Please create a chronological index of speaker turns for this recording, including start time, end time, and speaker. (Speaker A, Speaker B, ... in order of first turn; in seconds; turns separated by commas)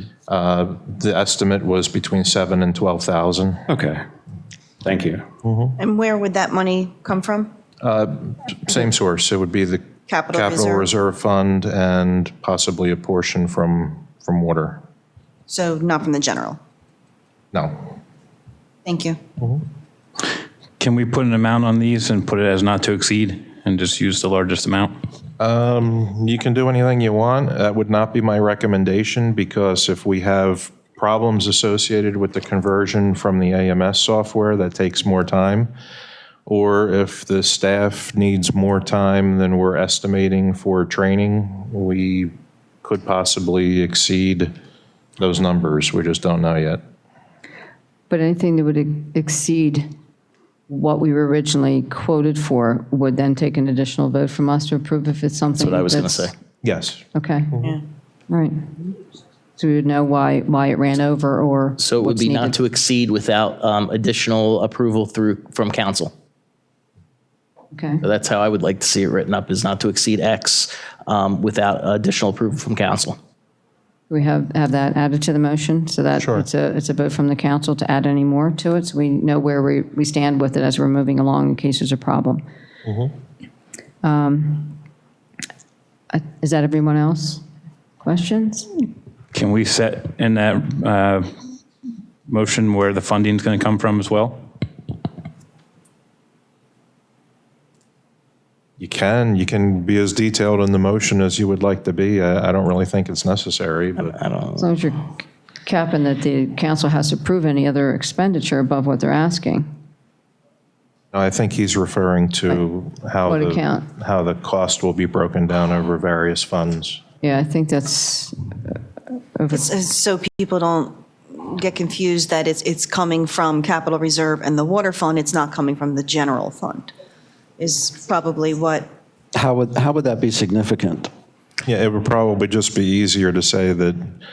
Speaker A: 0.3-3.6, Speaker B: 3.7-4.0, Speaker B: 4.8-5.3, Speaker A: 5.4-5.8, Speaker C: 5.8-7.5, Speaker A: 7.8-14.8, Speaker C: 10.1-10.9, Speaker C: 15.5-16.6, Speaker A: 17.5-17.9, Speaker C: 18.9-19.2, Speaker D: 20.8-24.9, Speaker A: 25.4-35.7, Speaker A: 36.5-44.5, Speaker A: 45.2-46.8, Speaker E: 48.1-49.9, Speaker E: 50.7-56.3, Speaker F: 55.6-56.3, Speaker A: 56.6-57.0, Speaker E: 57.1-57.7, Speaker E: 58.3-58.6, Speaker E: 59.6-62.6, Speaker F: 61.8-66.1, Speaker E: 67.7-68.0, Speaker F: 68.0-73.2, Speaker E: 74.1-82.4, Speaker A: 76.2-76.5, Speaker A: 82.9-83.1, Speaker E: 84.0-84.8, Speaker E: 86.1-87.4, Speaker E: 88.0-88.8, Speaker D: 89.3-91.3, Speaker D: 92.3-94.4, Speaker A: 98.8-104.2, Speaker F: 104.0-104.7, Speaker E: 104.6-109.7, Speaker A: 111.1-117.0, Speaker E: 113.2-113.9, Speaker E: 117.2-118.8, Speaker E: 119.4-119.7, Speaker C: 119.5-126.9, Speaker C: 127.6-128.9, Speaker B: 129.3-131.1, Speaker A: 131.7-134.1